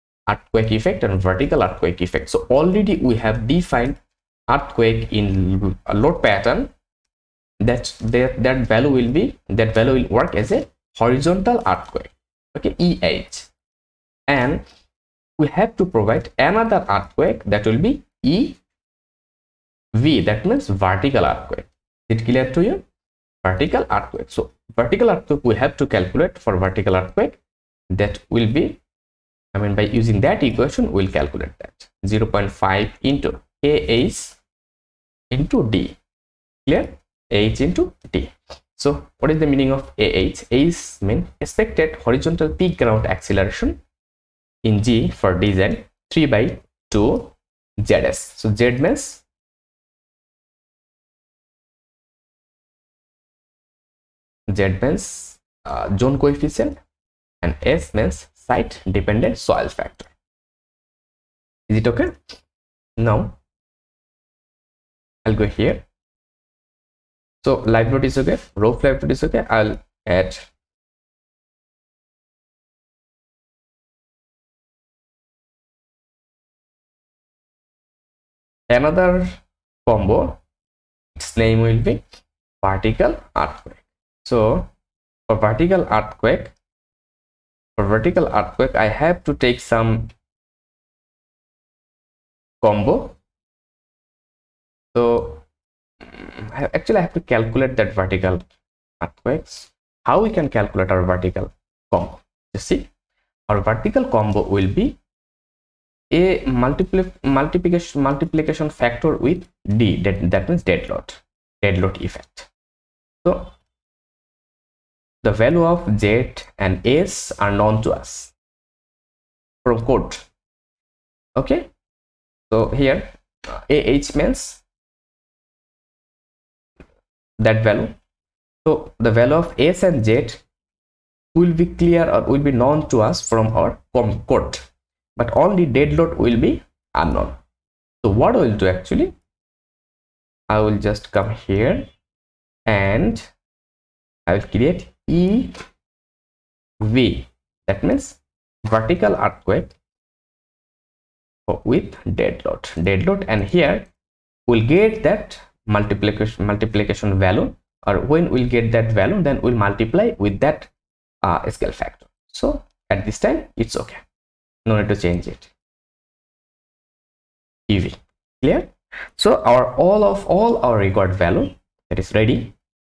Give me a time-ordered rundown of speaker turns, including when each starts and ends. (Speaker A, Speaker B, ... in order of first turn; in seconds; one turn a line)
Speaker A: 0.3-6.7
Speaker A: 7.6-13.5
Speaker A: 14.3-14.6
Speaker A: 15.4-18.6
Speaker A: 19.9-22.8
Speaker A: 23.4-27.4
Speaker A: 27.9-28.8
Speaker A: 29.5-34.4
Speaker A: 35.3-36.0
Speaker A: 36.6-43.8
Speaker A: 44.6-49.2
Speaker A: 54.5-56.8
Speaker A: 57.4-60.1
Speaker A: 61.7-62.1
Speaker A: 63.0-63.4
Speaker A: 65.2-65.8
Speaker A: 67.4-70.5
Speaker A: 78.7-80.4
Speaker A: 81.2-82.0
Speaker A: 82.6-84.7
Speaker A: 85.3-86.5
Speaker A: 87.8-90.1
Speaker A: 92.6-93.2
Speaker A: 94.9-95.4
Speaker A: 96.0-98.4
Speaker A: 99.0-102.9
Speaker A: 103.5-105.0
Speaker A: 106.1-112.5
Speaker A: 113.2-113.5
Speaker A: 115.2-118.3
Speaker A: 119.6-120.2
Speaker A: 121.4-121.7
Speaker A: 122.5-124.6
Speaker A: 127.4-127.9
Speaker A: 128.6-130.4
Speaker A: 131.3-137.4
Speaker A: 138.0-139.1
Speaker A: 140.5-141.9
Speaker A: 142.7-143.3
Speaker A: 144.3-145.5
Speaker A: 146.8-149.7
Speaker A: 151.5-153.9
Speaker A: 154.5-160.7
Speaker A: 161.2-164.0
Speaker A: 164.6-165.5
Speaker A: 167.7-172.5